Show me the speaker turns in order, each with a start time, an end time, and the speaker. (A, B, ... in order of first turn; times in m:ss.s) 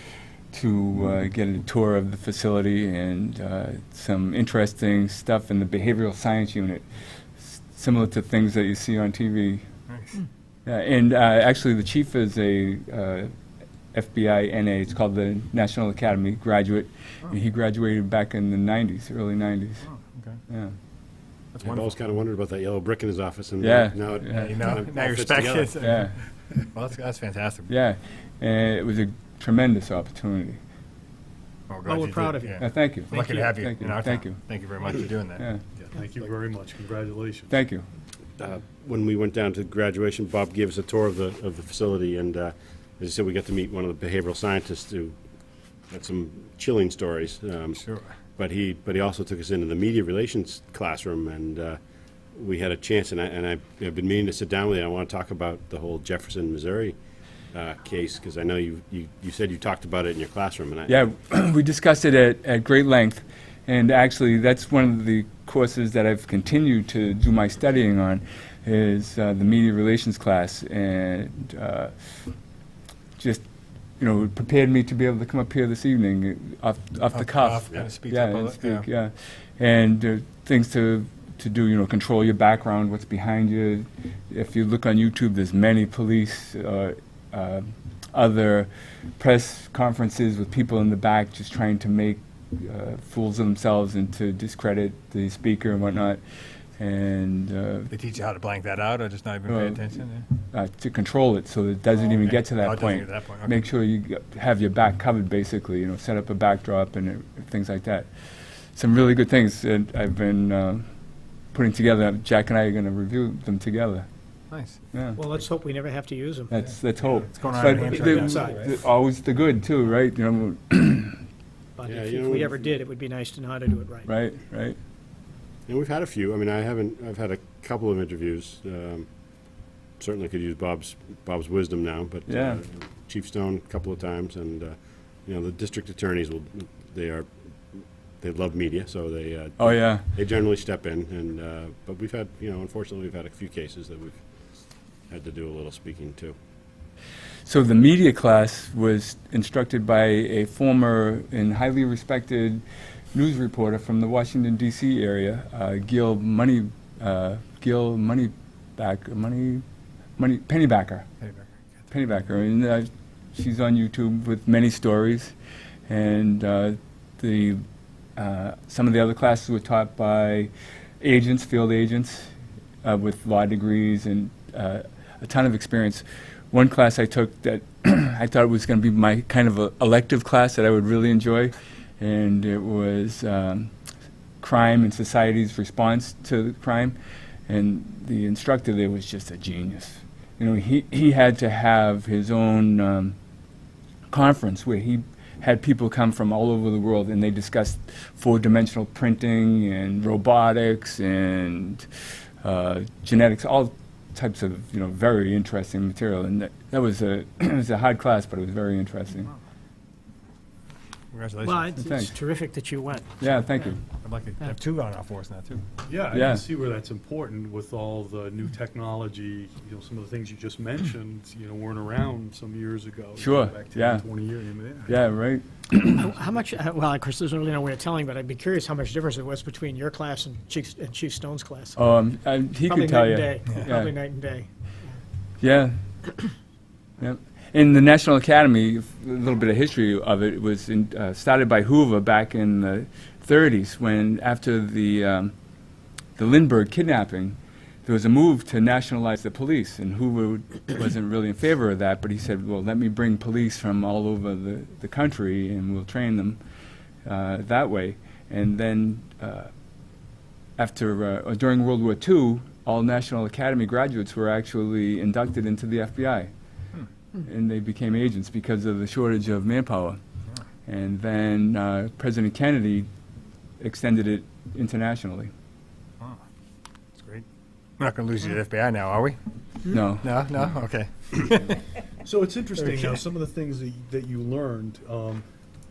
0:00.5-0:06.9 A
0:07.4-0:09.6 A
0:09.9-0:10.2 B
0:10.7-0:13.3 A
0:13.9-0:19.9 A
0:19.8-0:20.4 B
0:20.5-0:20.8 A
0:21.5-0:22.0 B
0:21.6-0:26.0 C
0:23.6-0:24.6 A
0:24.3-0:27.7 B
0:25.8-0:26.2 A
0:27.7-0:30.6 A
0:31.7-0:35.9 B
0:31.8-0:33.3 D
0:32.6-0:34.4 A
0:35.4-0:35.6 A
0:35.9-0:37.5 E
0:37.5-0:37.8 A
0:38.4-0:45.2 C
0:45.9-0:51.8 C
0:47.8-0:48.1 B
0:52.3-0:57.0 C
0:57.5-1:01.0 C
1:00.9-1:11.9 A
1:13.2-1:13.4 A
1:14.0-1:36.2 A
1:17.1-1:18.9 B
1:36.8-1:37.9 A
1:37.9-1:40.3 B
1:39.5-1:48.1 A
1:42.1-1:43.7 B
1:48.8-1:50.8 A
1:51.5-1:54.1 A
1:54.5-1:54.8 B
1:54.9-1:55.2 A
1:55.2-1:56.5 D
1:56.5-2:01.2 A
1:56.6-1:58.7 B
1:57.7-1:58.7 D
2:01.8-2:04.1 D
2:01.9-2:02.8 C
2:04.0-2:04.8 A
2:05.7-2:24.3 C
2:12.3-2:12.6 A
2:19.6-2:20.1 A
2:25.1-2:26.4 C
2:27.5-2:32.6 A
2:33.1-2:39.6 A
2:40.2-2:41.1 A
2:41.2-2:41.8 B
2:41.9-2:45.3 A
2:45.9-2:47.6 A
2:48.2-2:52.3 A
2:52.8-3:03.7 A
3:04.4-3:07.0 A
3:07.5-3:13.2 A
3:14.1-3:21.9 A
3:22.4-3:29.3 A
3:31.1-3:31.9 B
3:31.4-3:33.5 D
3:31.8-3:32.2 A
3:33.2-3:33.8 A
3:33.9-3:35.7 B
3:35.8-3:45.0 E
3:36.1-3:36.4 A
3:43.2-3:44.0 A
3:44.9-3:46.1 A
3:45.9-3:51.9 D
3:51.8-3:53.9 A
3:52.6-3:55.0 D
3:55.4-3:55.8 A
3:57.0-4:05.3 A
4:06.2-4:16.4 A
4:17.0-4:19.5 A
4:20.6-4:26.3 A
4:27.2-4:30.0 A
4:30.7-4:32.9 A
4:33.6-4:35.3 A
4:37.0-4:37.3 B
4:37.8-4:39.2 B
4:39.7-4:40.1 A
4:40.0-4:41.6 B
4:42.0-4:45.2 E